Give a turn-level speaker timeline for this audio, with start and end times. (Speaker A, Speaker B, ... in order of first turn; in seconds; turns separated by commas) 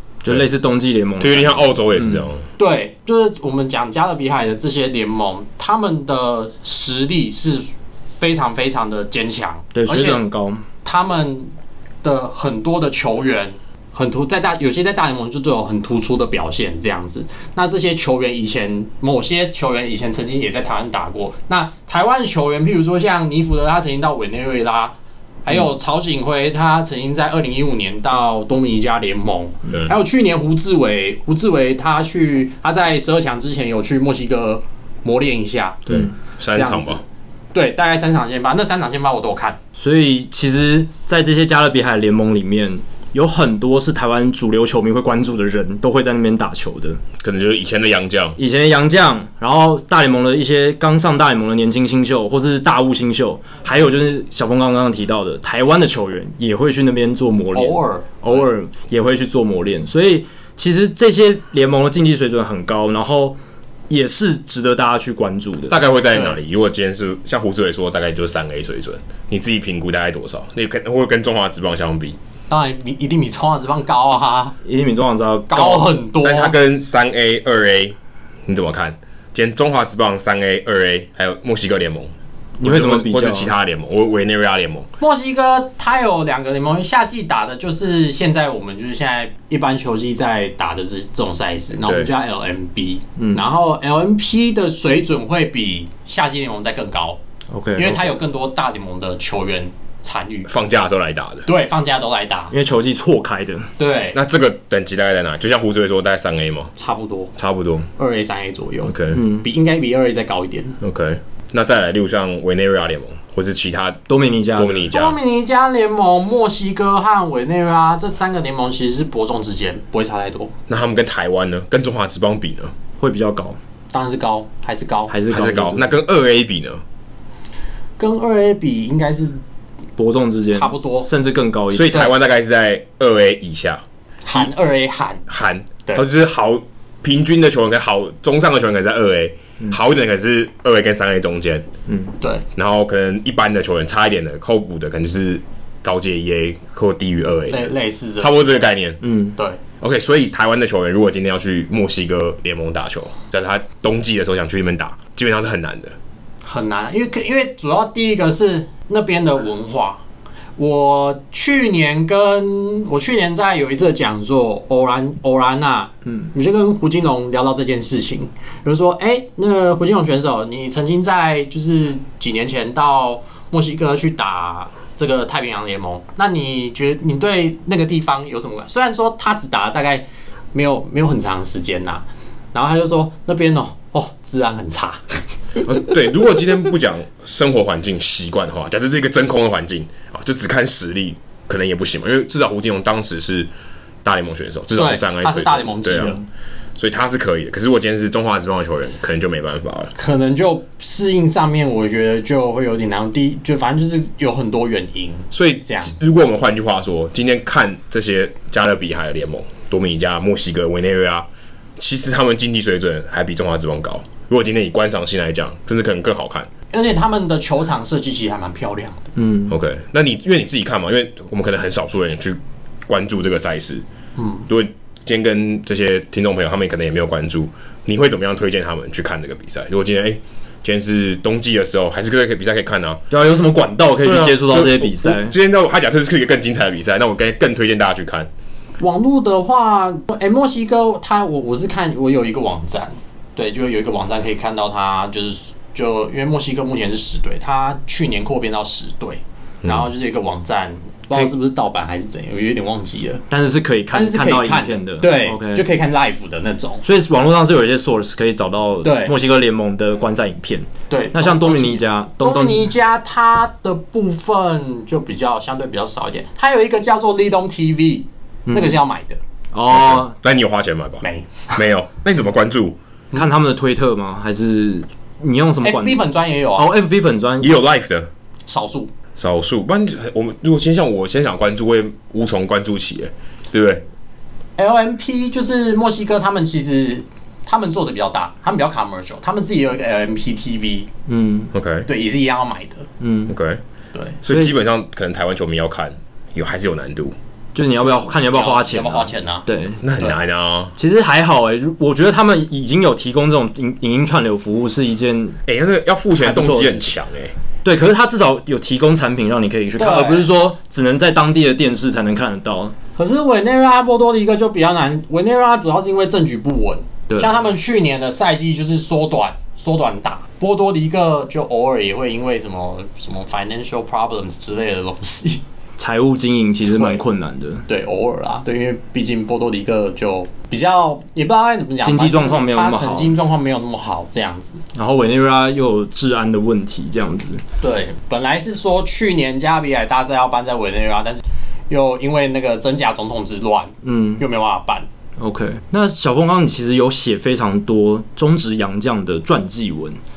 Speaker A: 0.2-2.2, Speaker B: 1.2-2.5, Speaker C: 2.6-10.2, Speaker A: 9.7-10.6, Speaker C: 10.8-11.5, Speaker C: 12.0-35.9, Speaker B: 35.9-37.0, Speaker C: 36.5-37.0, Speaker C: 37.5-39.6, Speaker A: 39.7-47.0, Speaker B: 47.2-48.4, Speaker A: 48.4-63.4, Speaker C: 57.5-58.4, Speaker A: 63.9-65.8, Speaker B: 65.7-72.2, Speaker C: 72.5-74.6, Speaker A: 74.6-75.9, Speaker C: 75.5-76.5, Speaker B: 76.2-78.0, Speaker B: 78.5-82.1, Speaker A: 82.6-83.5, Speaker B: 82.6-84.9, Speaker C: 85.0-97.2, Speaker B: 91.8-92.1, Speaker A: 93.2-93.4, Speaker A: 97.5-98.0, Speaker C: 97.8-100.5, Speaker B: 100.5-101.5, Speaker C: 101.5-102.5, Speaker A: 102.5-103.7, Speaker C: 103.8-104.2, Speaker B: 104.1-106.7, Speaker C: 106.8-107.3, Speaker B: 107.4-107.9, Speaker C: 108.0-110.8, Speaker B: 108.8-109.2, Speaker A: 109.1-109.5, Speaker B: 110.8-114.0, Speaker A: 114.1-114.9, Speaker B: 114.5-115.2, Speaker C: 114.9-120.5, Speaker B: 120.7-122.7, Speaker A: 123.0-123.6, Speaker C: 123.9-125.2, Speaker A: 125.1-126.0, Speaker B: 125.3-126.8, Speaker C: 128.0-129.4, Speaker A: 130.0-132.1, Speaker C: 130.5-131.1, Speaker B: 131.7-133.8, Speaker C: 134.2-135.2, Speaker B: 135.3-141.7, Speaker A: 141.9-142.1, Speaker C: 142.2-142.4, Speaker B: 142.5-149.0, Speaker C: 147.5-148.5, Speaker A: 149.0-149.3, Speaker B: 149.8-155.9, Speaker C: 156.4-160.0, Speaker C: 160.6-185.2, Speaker B: 185.6-193.5, Speaker B: 194.0-196.2, Speaker C: 194.7-196.2, Speaker B: 196.8-199.9, Speaker C: 199.9-205.9, Speaker B: 205.3-216.5, Speaker C: 216.7-219.1, Speaker A: 219.2-219.5, Speaker B: 219.5-223.8, Speaker C: 224.2-224.5, Speaker B: 224.5-233.0, Speaker A: 233.1-235.3, Speaker B: 234.0-238.3, Speaker C: 238.8-253.2, Speaker B: 249.6-249.9, Speaker A: 253.3-255.6, Speaker C: 253.9-256.8, Speaker A: 256.8-262.7, Speaker C: 258.8-259.1, Speaker C: 260.9-269.2, Speaker A: 268.5-268.8, Speaker A: 269.5-270.1, Speaker B: 269.7-272.8, Speaker A: 273.1-276.0, Speaker C: 275.6-276.7, Speaker A: 276.6-277.6, Speaker B: 277.4-278.1, Speaker C: 278.5-278.9, Speaker B: 279.2-283.8, Speaker C: 284.6-290.9, Speaker A: 291.1-291.5, Speaker B: 291.5-291.9, Speaker C: 291.9-292.9, Speaker A: 293.0-293.3, Speaker B: 293.3-293.6, Speaker B: 294.2-297.1, Speaker A: 294.3-294.5, Speaker A: 297.5-299.8, Speaker C: 298.1-299.4, Speaker B: 299.8-300.7, Speaker A: 300.8-305.4, Speaker B: 305.5-307.3, Speaker A: 306.2-306.9, Speaker A: 307.6-312.7, Speaker C: 309.8-310.3, Speaker C: 313.0-325.4, Speaker A: 325.8-327.6, Speaker C: 326.7-327.0, Speaker C: 327.7-334.6, Speaker A: 331.8-333.1, Speaker A: 334.7-337.4, Speaker C: 337.6-344.9, Speaker A: 343.8-344.2, Speaker A: 345.2-350.0